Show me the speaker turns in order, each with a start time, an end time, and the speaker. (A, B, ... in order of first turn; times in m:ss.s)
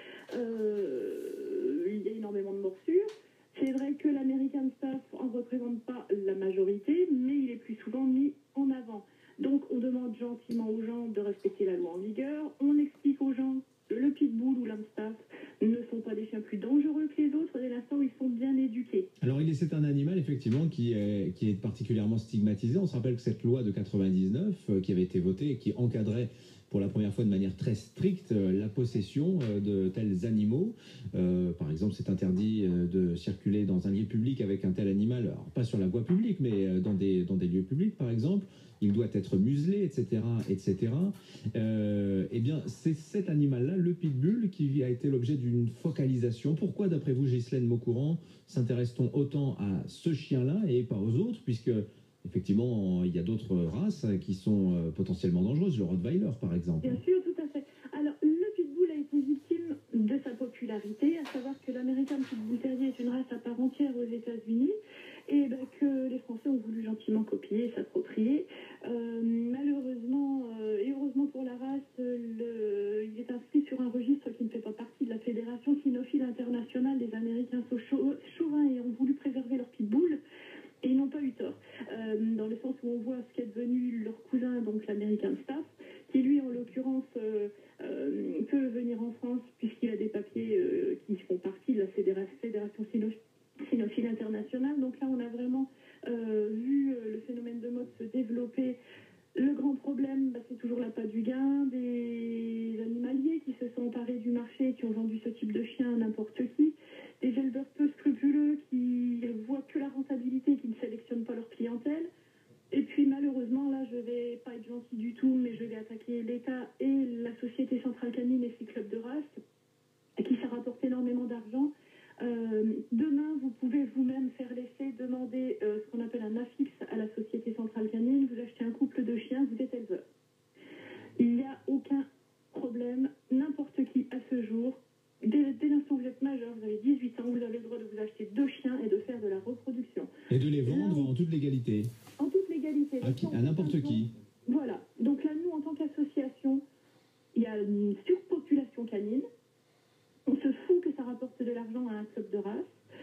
0:00.3-0:19.1 A
0:19.2-0:57.0 B
0:56.8-1:04.7 A
1:05.3-1:20.2 A
1:20.8-1:38.8 A
1:39.4-1:52.1 A
1:52.7-1:59.3 A
2:00.2-2:10.0 A
2:11.2-2:20.1 A
2:20.3-2:21.9 B
2:20.6-2:21.1 A
2:22.2-2:26.6 A
2:23.0-2:24.1 B
2:27.3-2:29.2 A
2:30.3-2:32.7 A